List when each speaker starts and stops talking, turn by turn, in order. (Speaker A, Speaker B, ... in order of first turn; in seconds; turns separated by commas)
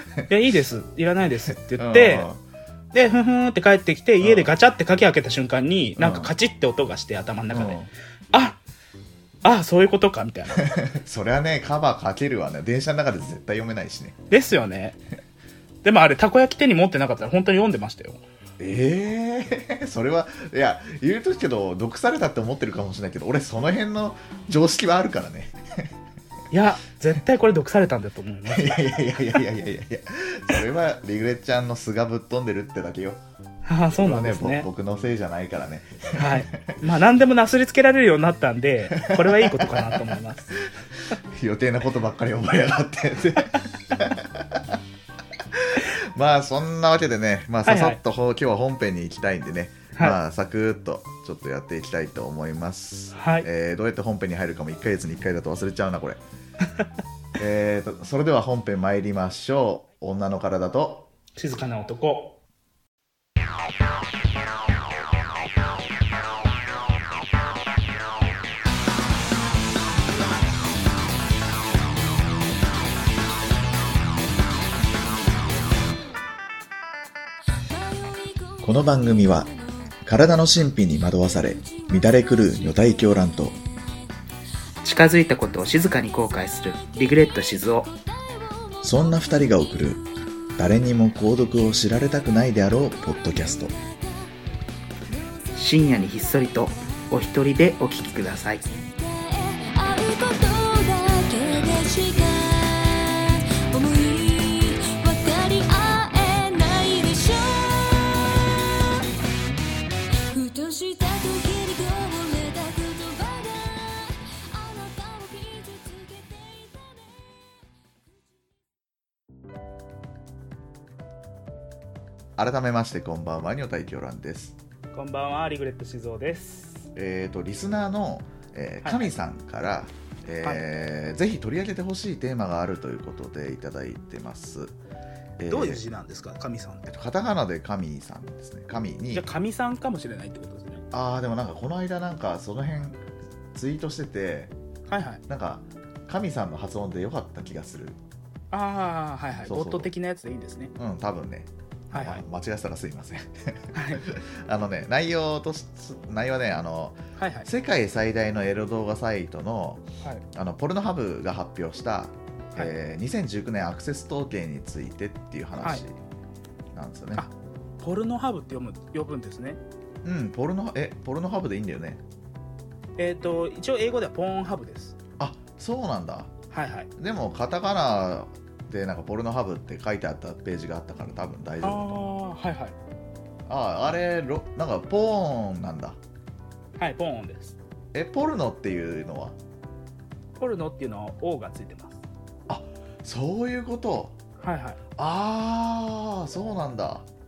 Speaker A: 0.3-2.3, Speaker B: 1.7-2.4, Speaker A: 2.9-8.6, Speaker B: 4.2-4.5, Speaker B: 6.0-6.3, Speaker B: 7.5-7.9, Speaker A: 9.4-10.8, Speaker B: 10.7-14.2, Speaker A: 14.3-15.0, Speaker A: 15.8-18.2, Speaker B: 18.6-25.9, Speaker A: 26.5-28.8, Speaker B: 28.5-33.2, Speaker A: 33.6-34.7, Speaker B: 33.9-36.8, Speaker A: 36.1-40.5, Speaker B: 39.0-40.1, Speaker B: 41.0-44.8, Speaker B: 45.5-56.2, Speaker A: 47.6-48.0, Speaker A: 53.1-53.5, Speaker B: 57.4-61.1, Speaker A: 61.4-62.4, Speaker C: 77.7-79.9, Speaker B: 78.6-79.5, Speaker B: 80.1-83.6, Speaker C: 81.7-83.1, Speaker A: 84.8-87.9, Speaker C: 85.4-90.1, Speaker B: 88.8-90.0, Speaker B: 90.6-93.7, Speaker C: 93.2-94.3, Speaker C: 95.1-97.3, Speaker A: 95.6-98.6, Speaker C: 98.6-109.1, Speaker C: 110.3-117.2, Speaker B: 122.4-124.6, Speaker A: 124.9-126.9, Speaker B: 127.0-134.7, Speaker A: 128.8-129.1, Speaker B: 135.4-135.8, Speaker A: 135.5-136.9, Speaker B: 136.9-139.3, Speaker A: 139.1-140.8, Speaker B: 140.9-143.0, Speaker B: 143.6-144.5, Speaker A: 144.9-145.2, Speaker B: 145.3-148.0, Speaker A: 148.5-150.7, Speaker B: 149.5-149.9, Speaker B: 150.8-166.0, Speaker A: 151.9-152.2, Speaker A: 153.7-154.0, Speaker A: 157.2-157.5, Speaker B: 166.7-167.2, Speaker A: 167.2-169.6, Speaker B: 170.0-172.0, Speaker A: 173.0-175.0, Speaker B: 175.2-176.3, Speaker A: 176.5-176.9, Speaker B: 177.0-181.9, Speaker A: 181.6-182.8, Speaker B: 183.5-186.0, Speaker A: 186.8-187.6, Speaker B: 187.9-189.4, Speaker A: 190.4-192.0, Speaker B: 192.5-194.2, Speaker A: 194.4-194.8, Speaker B: 195.0-197.1